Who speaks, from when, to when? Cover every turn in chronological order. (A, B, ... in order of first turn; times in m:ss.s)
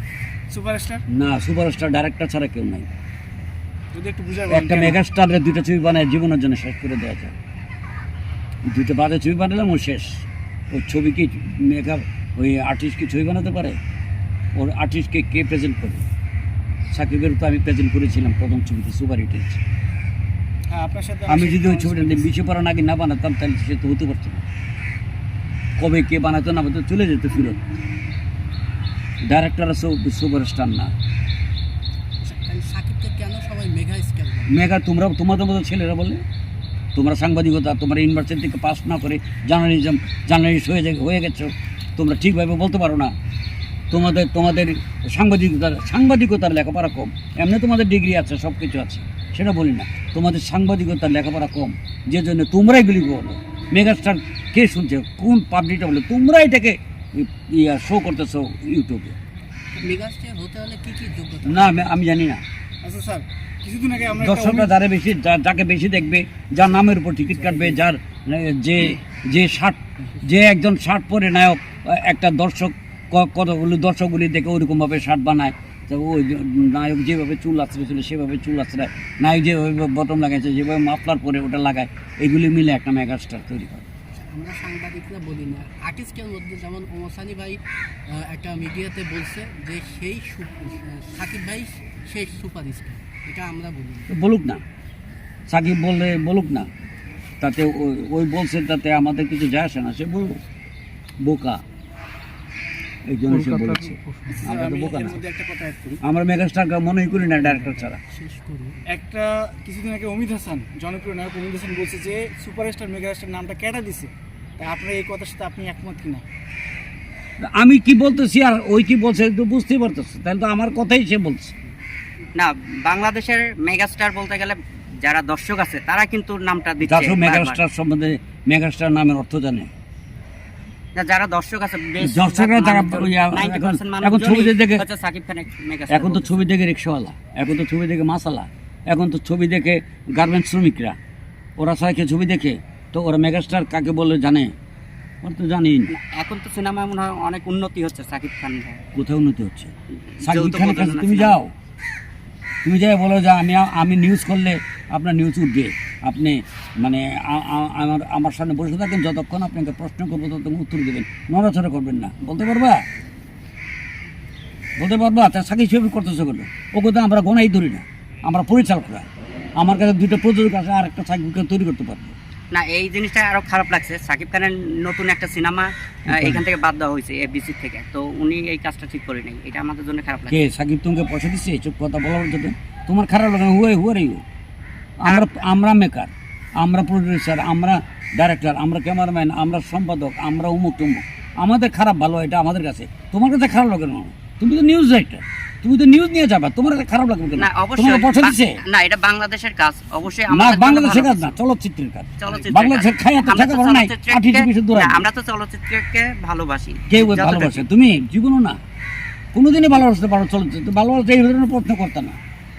0:00.5-0:01.0 A
0:01.1-0:02.9 B
0:03.9-0:05.0 A
0:04.5-0:07.3 B
0:08.6-0:13.8 B
0:14.5-0:16.0 B
0:16.9-0:19.6 B
0:20.7-0:22.3 A
0:21.3-0:24.4 B
0:25.8-0:27.6 B
0:29.2-0:30.9 B
0:32.2-0:34.6 C
0:34.5-0:36.2 B
0:37.0-0:43.1 B
0:43.9-0:59.2 B
0:59.7-1:02.0 C
1:01.4-1:02.4 B
1:02.8-1:04.8 A
1:04.2-1:23.9 B
1:07.4-1:07.7 A
1:24.1-1:34.1 C
1:34.1-1:34.6 B
1:35.5-1:36.7 B
1:37.4-1:40.4 B
1:41.2-1:41.6 B
1:43.1-1:45.2 B
1:44.3-1:46.0 A
1:46.0-1:48.0 B
1:47.8-1:48.8 C
1:48.9-1:56.3 A
1:57.4-2:01.5 B
2:02.4-2:07.6 D
2:06.8-2:09.7 B
2:11.0-2:16.4 D
2:12.0-2:14.9 B
2:15.9-2:21.0 B
2:21.6-2:24.5 B
2:25.2-2:25.9 B
2:25.9-2:28.8 D
2:29.0-2:31.5 B
2:30.1-2:31.4 D
2:32.6-2:42.8 B
2:44.8-2:52.2 B
2:52.5-3:00.4 D
2:56.1-2:56.4 B
3:00.3-3:04.2 B
3:05.0-3:18.6 B
3:17.4-3:21.4 D
3:20.3-3:25.1 B
3:22.2-3:27.6 D
3:26.9-3:28.6 B
3:29.3-3:32.2 B